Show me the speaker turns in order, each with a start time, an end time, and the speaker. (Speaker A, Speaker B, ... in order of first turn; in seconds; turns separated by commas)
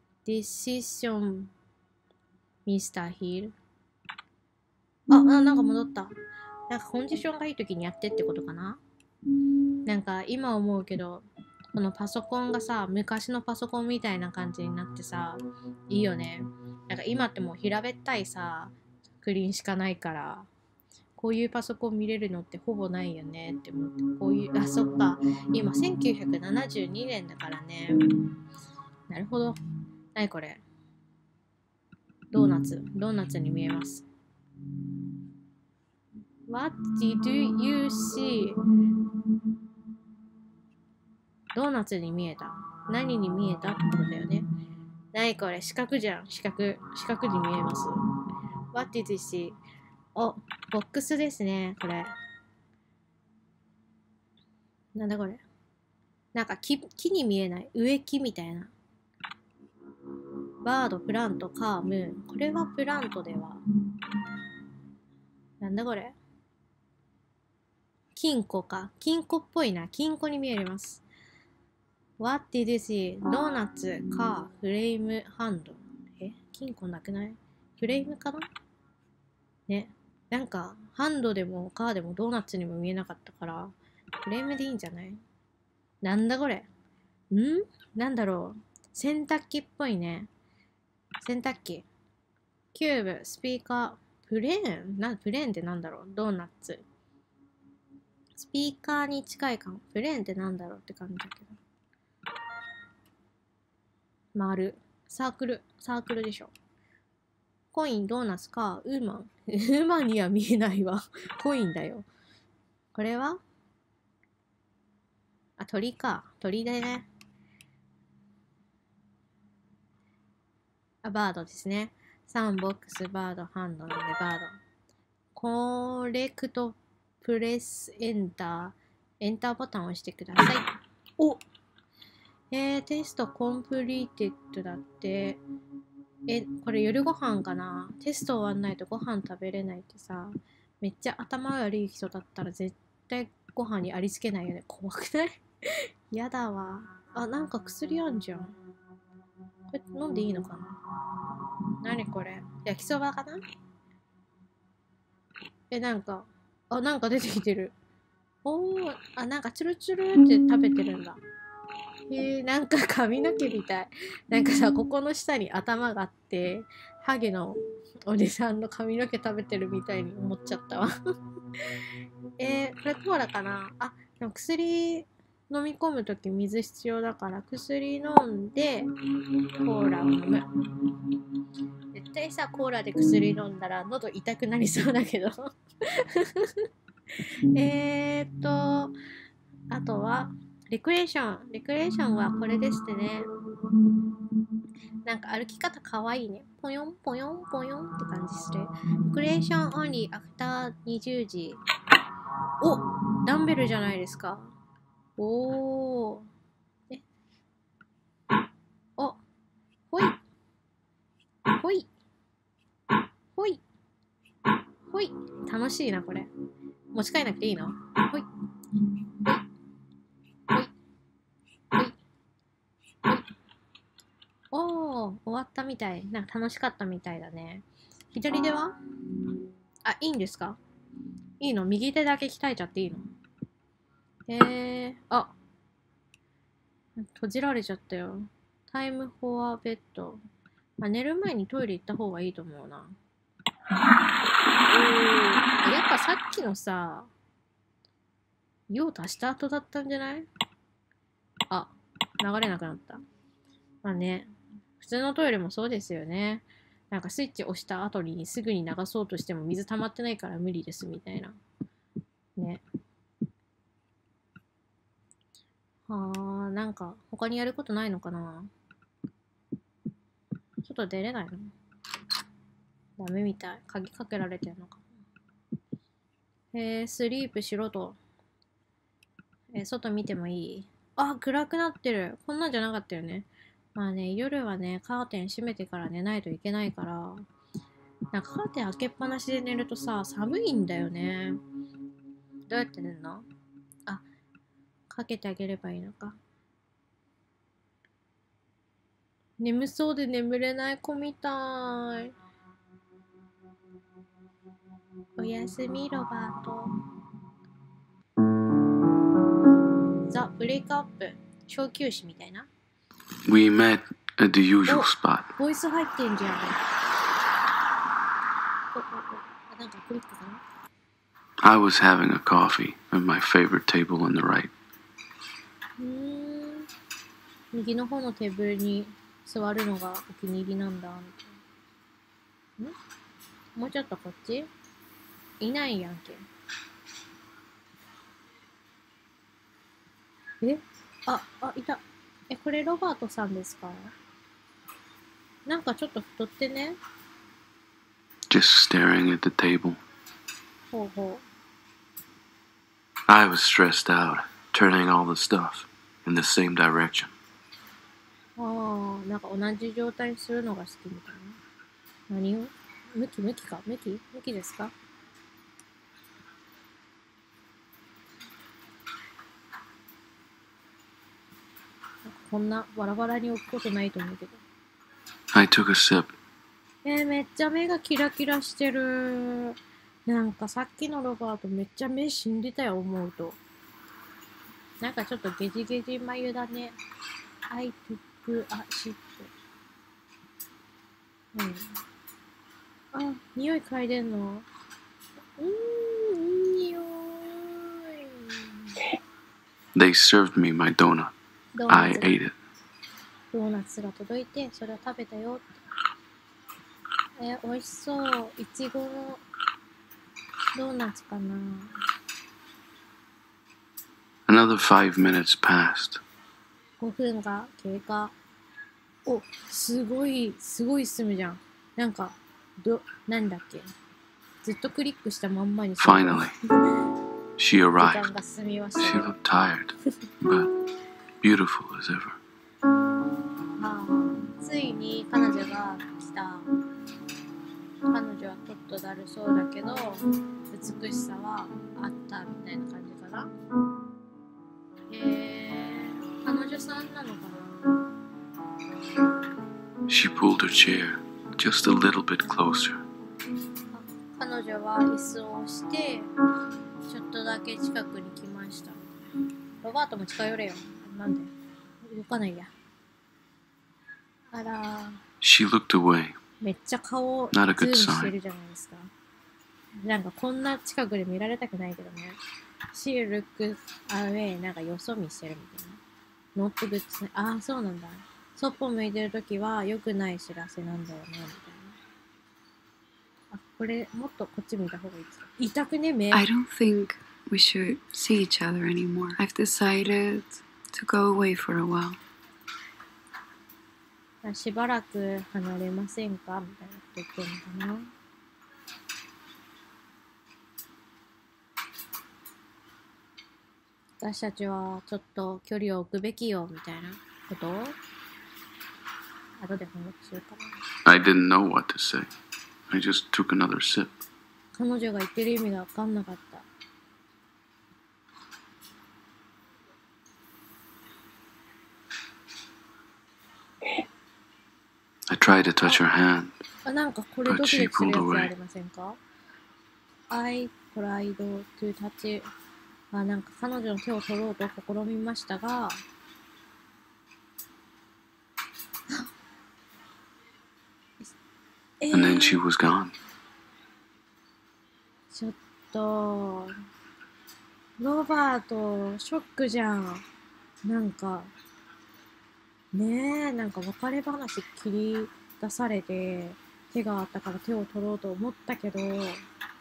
Speaker A: 0.2-1.5, Speaker A: 2.6-3.5, Speaker A: 5.1-6.1, Speaker A: 6.7-8.8, Speaker A: 9.8-20.5, Speaker A: 21.2-27.9, Speaker A: 29.1-29.6, Speaker A: 30.1-30.6, Speaker A: 32.3-34.0, Speaker A: 36.5-38.6, Speaker A: 41.5-44.5, Speaker A: 45.1-48.0, Speaker A: 48.7-49.6, Speaker A: 50.1-52.1, Speaker A: 55.0-55.4, Speaker A: 56.3-58.7, Speaker A: 60.6-63.6, Speaker A: 65.6-66.2, Speaker A: 68.2-71.0, Speaker A: 72.2-78.5, Speaker A: 79.7-83.7, Speaker A: 84.2-85.2, Speaker A: 86.0-86.7, Speaker A: 87.3-90.3, Speaker A: 91.2-91.8, Speaker A: 92.7-96.8, Speaker A: 98.4-101.6, Speaker A: 104.3-106.5, Speaker A: 107.7-112.0, Speaker A: 112.9-113.4, Speaker A: 115.6-117.1, Speaker A: 121.0-124.6, Speaker A: 125.3-131.4, Speaker A: 132.5-135.4, Speaker A: 136.3-145.4, Speaker A: 146.1-148.5, Speaker A: 149.7-150.7, Speaker A: 151.8-153.4, Speaker A: 155.7-157.7, Speaker A: 158.4-161.2, Speaker A: 162.1-170.9, Speaker A: 172.4-178.9, Speaker A: 179.6-180.4, Speaker A: 181.9-185.4, Speaker A: 185.9-186.6, Speaker A: 187.5-188.9, Speaker A: 189.7-193.3, Speaker A: 195.0-201.6, Speaker A: 202.6-204.5, Speaker A: 205.2-206.3, Speaker A: 209.9-210.2, Speaker A: 211.6-211.9, Speaker A: 213.3-213.6, Speaker A: 214.9-216.3, Speaker A: 216.9-218.2, Speaker A: 224.5-228.8, Speaker A: 229.8-230.6, Speaker A: 231.4-233.1, Speaker A: 234.3-235.3, Speaker A: 237.0-240.2, Speaker A: 240.8-242.9, Speaker A: 244.7-247.1, Speaker A: 248.7-250.3, Speaker A: 251.5-253.0, Speaker A: 253.8-254.3, Speaker A: 254.8-261.4, Speaker A: 262.4-262.6, Speaker A: 265.9-268.5, Speaker A: 270.6-271.5, Speaker A: 273.0-274.8, Speaker A: 276.5-278.0, Speaker A: 279.5-287.2, Speaker A: 288.1-291.4, Speaker A: 292.5-293.2, Speaker A: 294.9-296.2, Speaker A: 299.4-302.1, Speaker A: 305.2-306.7, Speaker A: 310.1-312.5, Speaker B: 313.2-315.3, Speaker A: 314.7-316.6, Speaker A: 318.7-320.4, Speaker B: 321.4-324.5, Speaker A: 325.8-326.7, Speaker A: 327.5-331.3, Speaker A: 333.6-334.5, Speaker A: 335.4-336.2, Speaker A: 340.4-343.9, Speaker A: 345.4-346.8, Speaker B: 348.3-349.8, Speaker A: 350.7-351.2, Speaker B: 353.1-357.1, Speaker A: 358.4-361.4, Speaker A: 362.1-364.7, Speaker A: 372.0-374.4, Speaker B: 375.3-376.1, Speaker A: 376.8-379.5, Speaker A: 380.1-383.4, Speaker A: 384.8-386.8, Speaker A: 387.5-389.3, Speaker A: 391.3-391.8, Speaker A: 392.9-394.5, Speaker A: 395.4-398.7, Speaker B: 399.7-401.1, Speaker A: 401.5-402.1, Speaker B: 401.7-402.4, Speaker A: 403.3-405.4, Speaker A: 407.2-409.2, Speaker A: 410.5-411.8, Speaker B: 414.3-416.0, Speaker A: 416.8-418.1, Speaker A: 419.1-423.7, Speaker A: 424.4-426.3, Speaker B: 425.8-426.3, Speaker B: 427.4-428.1, Speaker A: 427.8-429.1, Speaker B: 428.8-430.5, Speaker B: 431.2-432.2, Speaker A: 433.6-436.5, Speaker A: 437.9-443.3, Speaker A: 444.9-447.5, Speaker B: 449.9-452.8, Speaker A: 453.7-456.1, Speaker A: 456.9-458.9, Speaker A: 459.6-461.3, Speaker A: 461.8-462.5, Speaker A: 464.3-465.0, Speaker B: 465.2-466.1, Speaker A: 466.4-468.9, Speaker B: 467.3-468.1, Speaker A: 469.8-472.2, Speaker A: 472.7-475.8, Speaker A: 476.4-481.8, Speaker A: 483.3-486.2, Speaker C: 486.1-492.0, Speaker A: 494.2-497.9, Speaker A: 504.0-507.8, Speaker A: 509.4-510.6, Speaker B: 510.9-512.1, Speaker B: 512.7-513.9, Speaker A: 514.5-516.5, Speaker B: 525.1-526.4, Speaker A: 526.6-529.0, Speaker B: 527.3-528.3, Speaker A: 530.1-532.3, Speaker A: 532.9-535.8, Speaker A: 541.8-542.4, Speaker B: 541.9-542.9, Speaker A: 545.1-546.5, Speaker A: 547.8-550.0, Speaker A: 550.6-551.3, Speaker A: 552.7-559.2